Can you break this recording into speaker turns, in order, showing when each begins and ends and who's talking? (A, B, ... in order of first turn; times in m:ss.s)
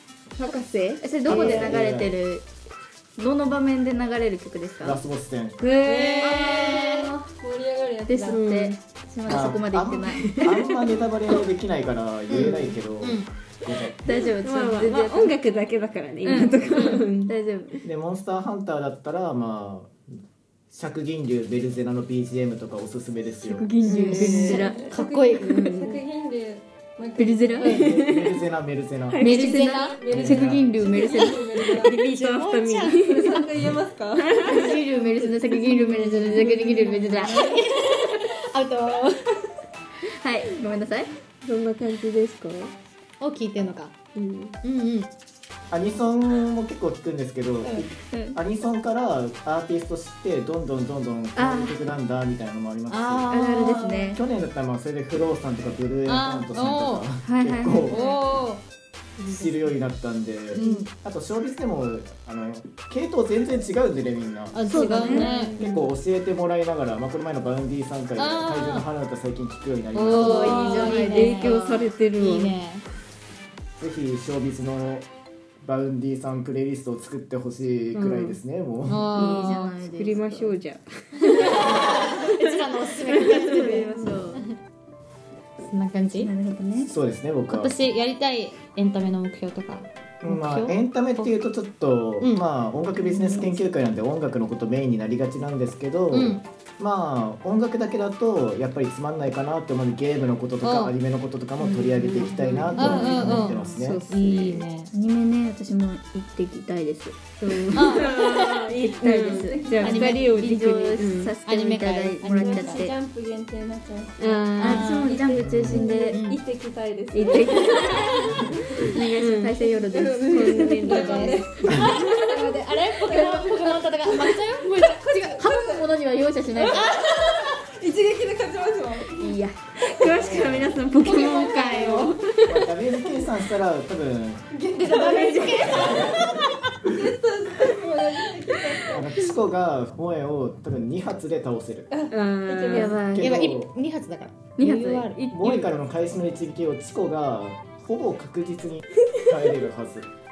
0:00.4-0:01.7 A
0:01.0-0:02.4 B
0:01.3-0:02.1 C
0:03.2-0:05.0 B
0:04.8-0:05.6 C
0:05.6-0:06.8 A
0:05.8-0:07.1 D
0:06.2-0:07.2 B
0:07.4-0:08.4 E
0:08.1-0:10.4 B
0:08.3-0:08.8 A
0:09.3-0:14.0 C
0:10.2-0:10.7 A
0:12.3-0:13.3 D
0:14.0-0:15.4 B
0:14.1-0:17.3 A
0:16.2-0:17.7 B
0:16.8-0:17.0 D
0:17.8-0:20.1 C
0:20.7-0:24.4 C
0:23.4-0:24.9 B
0:23.8-0:25.8 D
0:23.9-0:24.6 A
0:24.1-0:27.9 E
0:25.5-0:26.0 A
0:27.2-0:27.9 B
0:27.6-0:28.4 A
0:27.7-0:29.3 C
0:29.1-0:29.8 A
0:29.2-0:30.0 D
0:29.2-0:31.6 B
0:29.4-0:32.0 E
0:30.1-0:30.7 C
0:31.6-0:34.8 A
0:31.8-0:33.0 D
0:33.0-0:35.2 E
0:34.4-0:37.6 B
0:35.7-0:37.1 A
0:36.5-0:37.0 E
0:37.2-0:39.4 D
0:40.1-0:41.1 B
0:41.4-0:42.8 A
0:43.2-0:43.9 D
0:44.1-0:44.6 A
0:44.6-0:45.1 D
0:45.7-0:58.0 C
0:47.6-0:47.9 D
0:48.0-0:48.4 B
0:51.3-0:51.8 B
0:52.9-0:54.1 D
0:53.3-0:54.2 B
0:56.1-0:57.1 D
0:57.2-0:58.1 B
0:57.9-0:58.6 D
0:59.2-0:59.7 D
0:59.3-1:10.8 C
1:00.5-1:00.9 D
1:00.6-1:00.8 B
1:04.5-1:05.6 D
1:04.6-1:05.5 B
1:04.7-1:05.9 A
1:08.2-1:08.9 D
1:09.9-1:12.8 D
1:10.1-1:11.6 B
1:10.4-1:12.6 A
1:13.8-1:15.1 C
1:15.6-1:19.1 C
1:17.9-1:18.4 A
1:18.9-1:19.7 D
1:19.1-1:20.6 B
1:19.8-1:22.0 A
1:21.2-1:24.4 D
1:23.1-1:24.2 A
1:23.2-1:24.4 B
1:25.6-1:26.3 D
1:26.1-1:26.9 B
1:26.8-1:27.7 C
1:27.5-1:31.3 D
1:30.2-1:44.0 C
1:33.0-1:33.6 B
1:36.1-1:36.4 D
1:40.6-1:40.9 D
1:41.6-1:44.6 A
1:42.8-1:44.9 D
1:43.0-1:43.4 B
1:44.9-1:52.9 B
1:47.4-1:51.3 A
1:47.7-1:48.6 D
1:49.1-1:50.1 E
1:49.8-1:50.6 D
1:51.4-1:52.9 D
1:52.2-1:58.8 E
1:54.4-1:55.2 D
1:54.6-1:56.2 B
1:55.4-1:55.8 C
1:56.1-1:56.4 D
1:57.1-2:01.6 B
1:57.1-1:58.0 A
1:59.2-1:59.6 A
1:59.9-2:05.9 E
2:00.3-2:02.0 A
2:01.6-2:05.5 D
2:05.4-2:06.8 B
2:06.6-2:09.2 E
2:06.7-2:07.1 D
2:09.2-2:10.1 B
2:09.8-2:12.3 A
2:10.1-2:10.8 C
2:11.0-2:12.3 E
2:11.0-2:12.1 D
2:12.4-2:14.4 C
2:14.5-2:16.4 E
2:14.8-2:16.4 D
2:14.9-2:15.9 A
2:16.9-2:19.1 E
2:18.9-2:21.9 C
2:21.9-2:23.0 E
2:22.1-2:23.0 A
2:22.7-2:23.5 B
2:22.9-2:23.7 C
2:23.2-2:25.2 D
2:24.6-2:25.7 B
2:25.3-2:30.1 C